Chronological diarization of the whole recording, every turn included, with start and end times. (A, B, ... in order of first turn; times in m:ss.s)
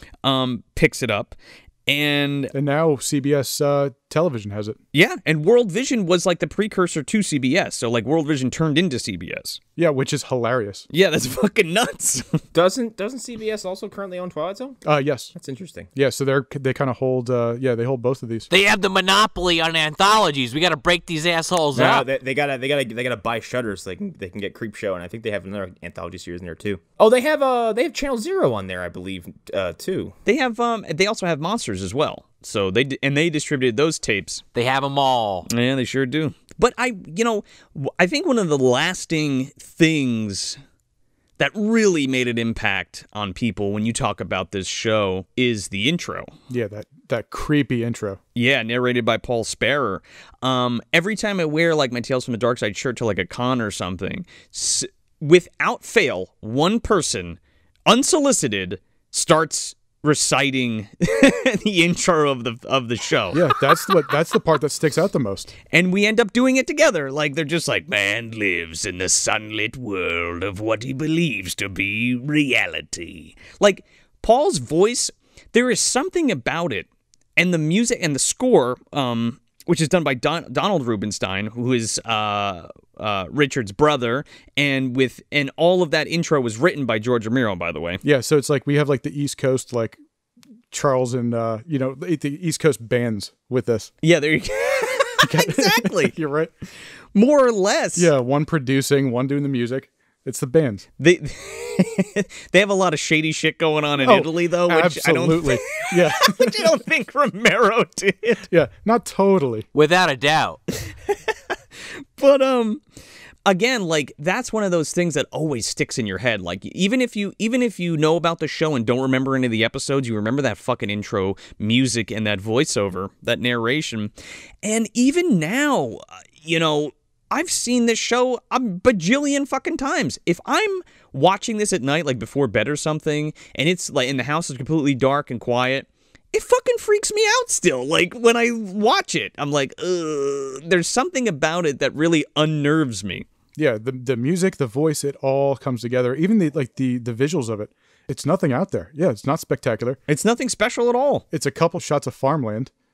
0:00.2-0:02.5 A
0:02.5-0:04.8 B
0:04.9-0:09.6 A
0:09.8-0:10.9 B
0:10.9-0:12.4 A
0:12.5-0:14.8 C
0:14.8-0:15.3 B
0:15.4-0:15.9 C
0:16.0-0:18.5 B
0:18.5-0:22.1 D
0:21.7-0:30.2 C
0:30.3-0:34.4 A
0:34.6-0:35.5 D
0:35.5-0:40.6 A
0:41.4-0:46.3 A
0:46.5-0:48.2 B
0:48.4-1:04.0 A
1:03.3-1:05.5 B
1:05.7-1:28.0 A
1:28.0-1:30.0 B
1:30.7-1:33.9 B
1:34.0-1:36.2 A
1:35.2-1:36.5 B
1:37.1-1:38.1 A
1:38.0-1:40.9 B
1:41.0-1:48.5 A
1:44.0-1:46.7 B
1:48.5-1:49.7 B
1:49.7-1:50.6 D
1:50.9-1:52.8 A
1:53.5-2:04.1 A
2:04.6-2:23.3 A
2:23.6-2:30.0 B
2:30.1-2:31.2 A
2:31.3-2:32.7 B